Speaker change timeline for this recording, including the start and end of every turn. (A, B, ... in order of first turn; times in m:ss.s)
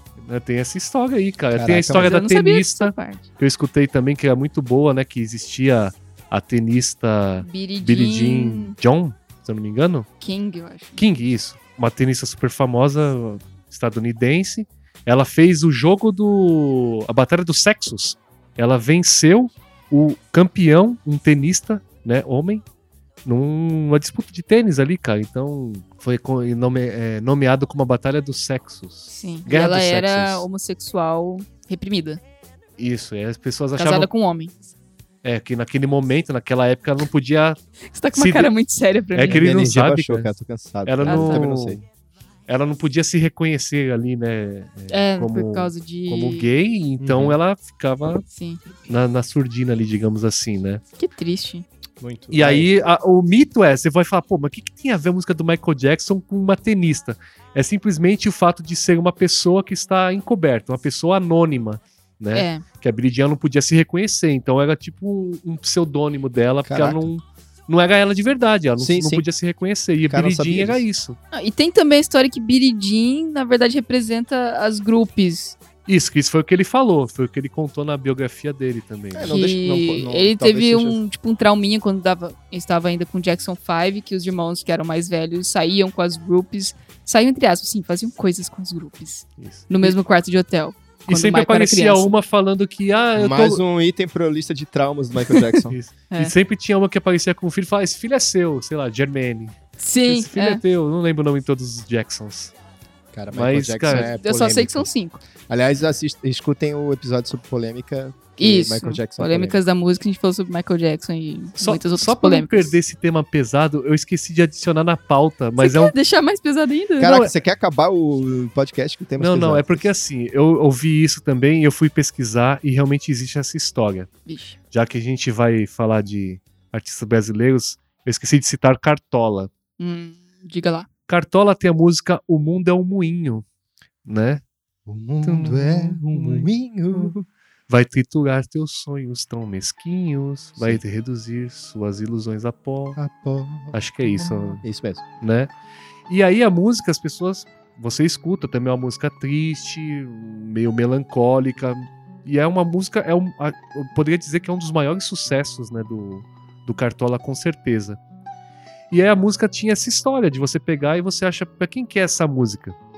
0:00.2-0:10.1 A
0:01.5-0:02.1 B
0:02.0-0:03.2 C
0:07.4-0:08.8 C
0:10.2-0:11.0 C
0:11.0-0:22.6 A
0:23.2-0:30.4 A
0:29.1-0:32.2 C
0:32.8-0:34.1 A
0:33.8-0:34.5 C
0:35.2-0:37.6 A
0:37.9-0:39.5 C
0:38.1-0:38.5 A
0:39.1-0:40.3 A
0:39.2-0:41.8 B
0:40.9-0:41.8 A
0:41.0-0:41.5 C
0:42.5-0:48.2 A
0:44.9-0:46.4 C
0:47.0-0:47.4 B
0:48.3-0:48.6 C
0:48.9-0:50.8 A
0:51.0-0:51.6 C
0:52.0-0:52.7 B
0:52.3-1:11.2 A
1:02.3-1:02.6 C
1:06.6-1:07.1 B
1:08.8-1:09.2 B
1:10.1-1:10.8 B
1:11.3-1:15.6 C
1:15.9-1:19.3 A
1:19.1-1:21.0 B
1:19.3-1:32.1 C
1:29.4-1:30.0 A
1:31.1-1:33.6 A
1:33.2-1:35.8 B
1:35.7-1:42.5 A
1:39.8-1:40.6 C
1:43.1-1:44.9 B
1:43.3-1:44.2 A
1:43.9-1:45.2 C
1:45.5-1:49.6 B
1:48.4-1:52.8 C
1:51.6-1:55.9 A
1:55.6-1:57.2 C
1:57.0-1:59.9 B
1:59.2-2:04.1 A
2:04.3-2:04.5 C
2:04.7-2:09.5 A
2:09.8-2:10.9 C
2:11.1-2:13.4 A
2:14.0-2:14.4 A
2:14.9-2:17.2 B
2:15.2-2:17.1 A
2:17.7-2:23.0 A
2:23.0-2:25.0 B
2:23.7-2:24.6 A
2:25.2-2:25.5 A
2:26.1-2:38.0 A
2:38.9-2:42.8 A